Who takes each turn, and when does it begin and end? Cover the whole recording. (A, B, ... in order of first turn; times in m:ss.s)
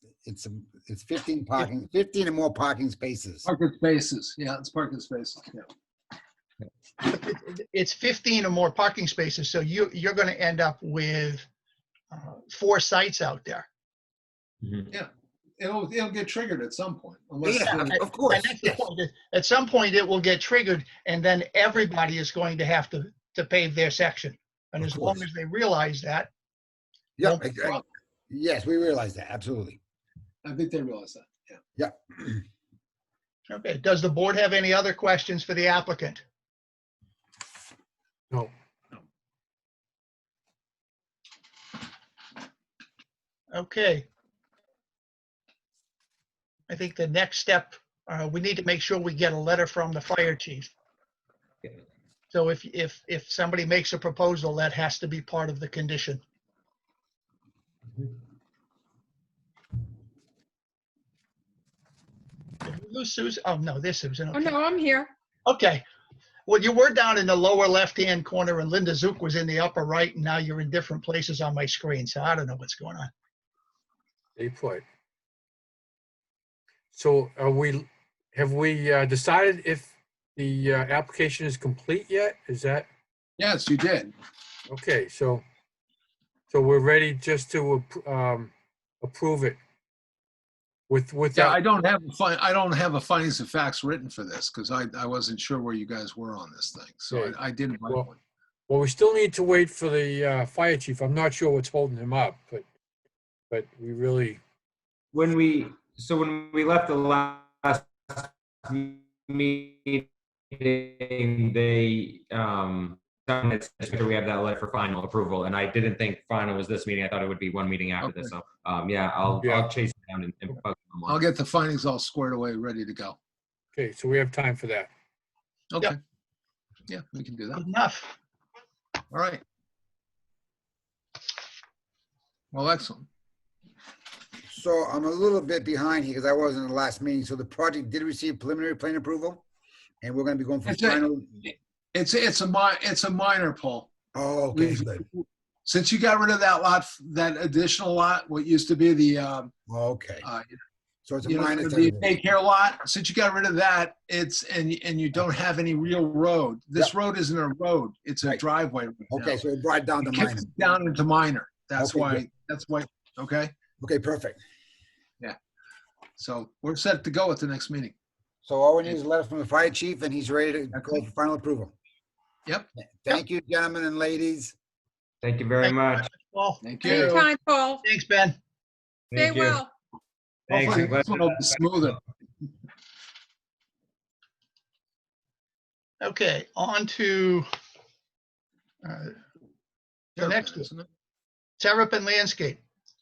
0:00.2-0:03.5 A
0:03.4-0:05.7 B
0:07.0-0:11.4 C
0:12.1-0:13.7 C
0:14.9-0:18.1 B
0:17.4-0:18.8 A
0:17.7-0:26.3 C
0:24.8-0:25.2 A
0:27.2-0:29.8 A
0:27.2-0:27.8 C
0:30.4-0:31.6 B
0:31.8-0:32.4 A
0:33.5-0:36.2 C
0:43.5-0:44.1 C
0:46.7-0:50.7 C
0:52.3-0:56.2 C
1:02.6-1:04.6 C
1:04.3-1:05.1 D
1:05.4-1:05.8 C
1:06.5-1:13.1 C
1:14.4-1:14.8 E
1:16.9-1:22.9 E
1:23.4-1:24.1 B
1:24.7-1:25.4 E
1:26.5-1:28.5 E
1:29.0-1:29.6 E
1:30.9-1:31.6 E
1:31.3-1:38.2 B
1:37.1-1:38.1 E
1:38.7-1:42.6 E
1:43.5-1:44.4 E
1:45.1-2:01.2 F
1:58.0-1:58.3 B
1:59.4-1:59.7 E
2:01.0-2:03.2 B
2:03.7-2:04.9 E
2:05.7-2:06.0 B
2:06.9-2:07.6 B
2:07.5-2:08.1 C
2:09.1-2:09.4 B
2:12.5-2:13.1 B
2:14.5-2:19.4 A
2:20.0-2:21.4 A
2:20.6-2:23.9 B
2:24.1-2:25.0 A
2:24.5-2:29.5 B
2:29.7-2:30.2 A
2:30.2-2:30.5 B
2:31.0-2:32.1 A
2:31.2-2:39.4 B
2:39.1-2:40.5 A
2:40.0-2:43.5 B
2:41.8-2:42.2 A
2:43.8-2:44.4 A
2:46.2-2:47.9 B
2:48.4-2:51.7 A
2:50.7-2:51.0 B
2:52.8-2:54.5 A
2:55.2-2:56.1 F
2:55.6-2:57.2 C
2:56.6-2:57.3 B
2:56.8-2:57.8 D
2:57.8-2:58.4 C
2:59.1-2:59.6 F
2:59.1-2:59.7 D
3:00.5-3:01.9 F
3:00.5-3:02.0 B
3:06.0-3:07.5 C
3:08.8-3:09.2 C
3:10.2-3:10.7 C
3:10.2-3:10.9 B
3:11.6-3:12.6 C